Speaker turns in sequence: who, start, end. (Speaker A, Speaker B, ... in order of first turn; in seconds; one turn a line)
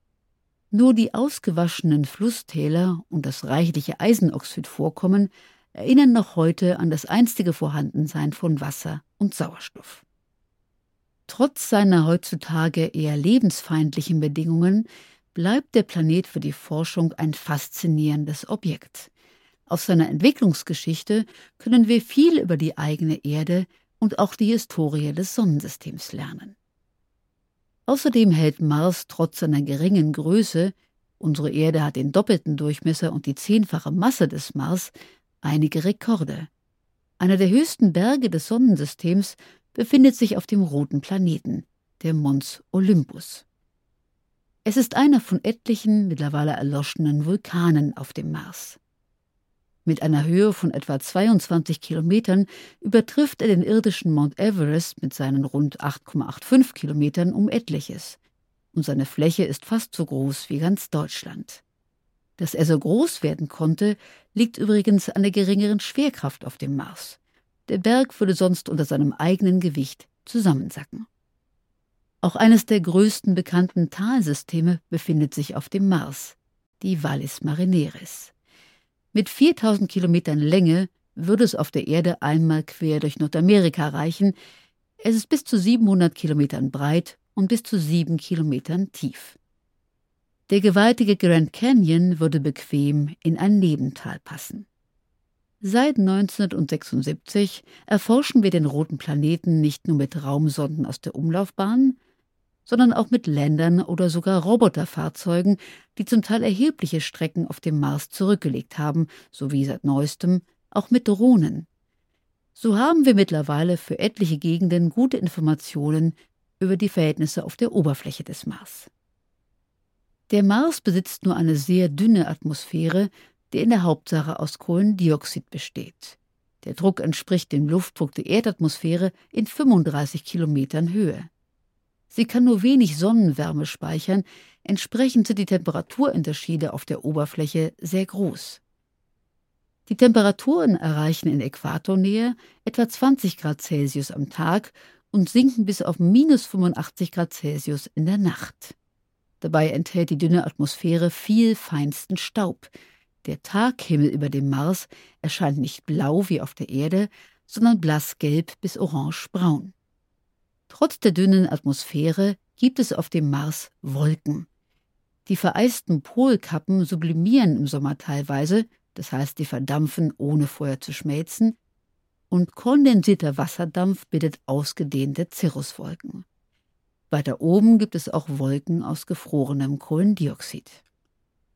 Speaker A: 0.7-10.0
Speaker A: 11.3-19.1
Speaker A: 19.7-26.6
Speaker A: 27.9-36.5
Speaker A: 37.2-43.4
Speaker A: 44.6-48.8
Speaker A: 49.9-58.2
Speaker A: 58.7-61.6
Speaker A: 62.4-71.1
Speaker A: 72.2-78.3
Speaker A: 79.1-84.3
Speaker A: 85.0-89.4
Speaker A: 90.5-94.7
Speaker A: 95.6-102.0
Speaker A: 102.7-111.7
Speaker A: 112.5-118.9
Speaker A: 120.3-131.3
Speaker A: 132.1-138.6
Speaker A: 139.9-148.8
Speaker A: 149.4-152.7
Speaker A: 153.2-159.7
Speaker A: 160.7-164.5
Speaker A: 165.3-171.6
Speaker A: 172.3-176.2
Speaker A: 177.1-180.8